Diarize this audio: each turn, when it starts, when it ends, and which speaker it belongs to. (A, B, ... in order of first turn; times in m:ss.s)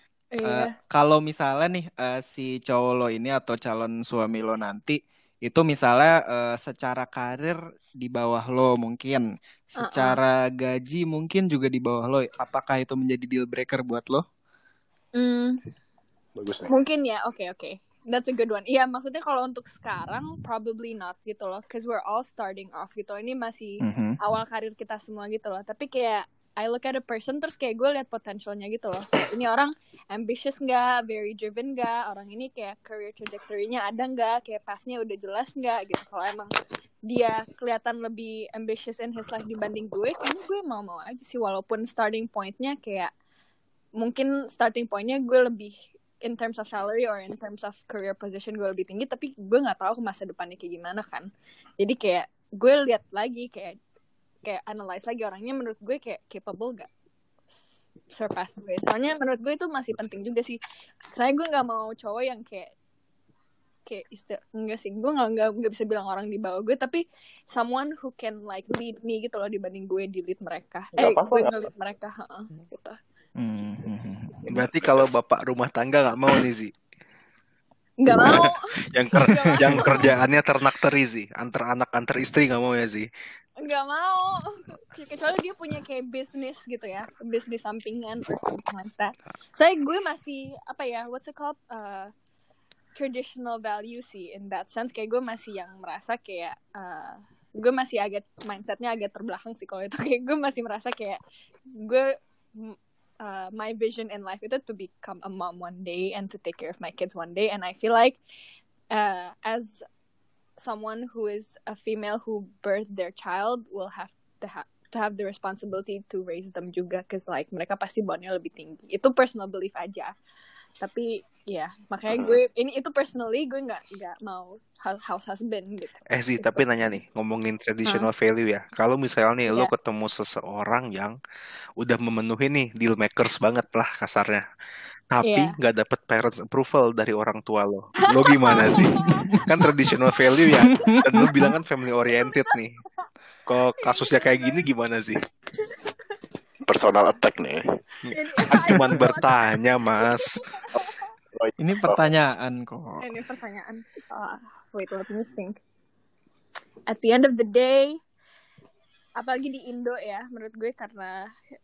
0:00.3-0:00.7 A
0:00.4-0:14.2 B
0:09.8-0:10.2 A
0:15.2-0:15.6 A
0:16.4-0:16.7 C
0:16.7-0:36.5 A
0:23.8-0:24.2 B
0:37.1-0:43.1 A
0:44.0-0:51.3 A
0:51.8-0:53.8 A
0:54.4-0:56.9 A
0:58.1-1:00.6 A
1:01.1-1:02.7 A
1:03.9-1:13.0 A
1:11.0-1:11.6 C
1:13.4-1:14.4 B
1:14.4-1:15.2 C
1:14.5-1:16.7 D
1:18.0-1:18.7 A
1:18.1-1:23.1 D
1:19.1-1:20.2 B
1:19.2-1:20.2 A
1:23.6-1:32.1 A
1:33.0-1:41.2 A
1:41.8-1:48.2 A
1:48.9-1:49.8 A
1:50.6-2:00.1 A
2:00.8-2:06.7 A
2:02.1-2:02.4 C
2:06.1-2:11.2 D
2:11.8-2:14.5 D
2:15.1-2:22.8 D
2:15.2-2:15.6 A
2:18.0-2:19.7 A
2:18.8-2:19.4 B
2:20.4-2:21.3 A
2:20.7-2:21.4 B
2:22.1-2:22.5 A
2:23.5-2:25.2 D
2:23.8-2:24.6 A
2:25.6-2:25.9 A
2:26.7-2:27.6 C
2:28.0-2:30.5 D
2:28.1-2:31.0 A
2:30.8-2:32.1 C
2:31.6-2:33.1 B
2:33.0-2:35.6 A
2:36.9-2:38.0 A
2:39.2-2:41.3 A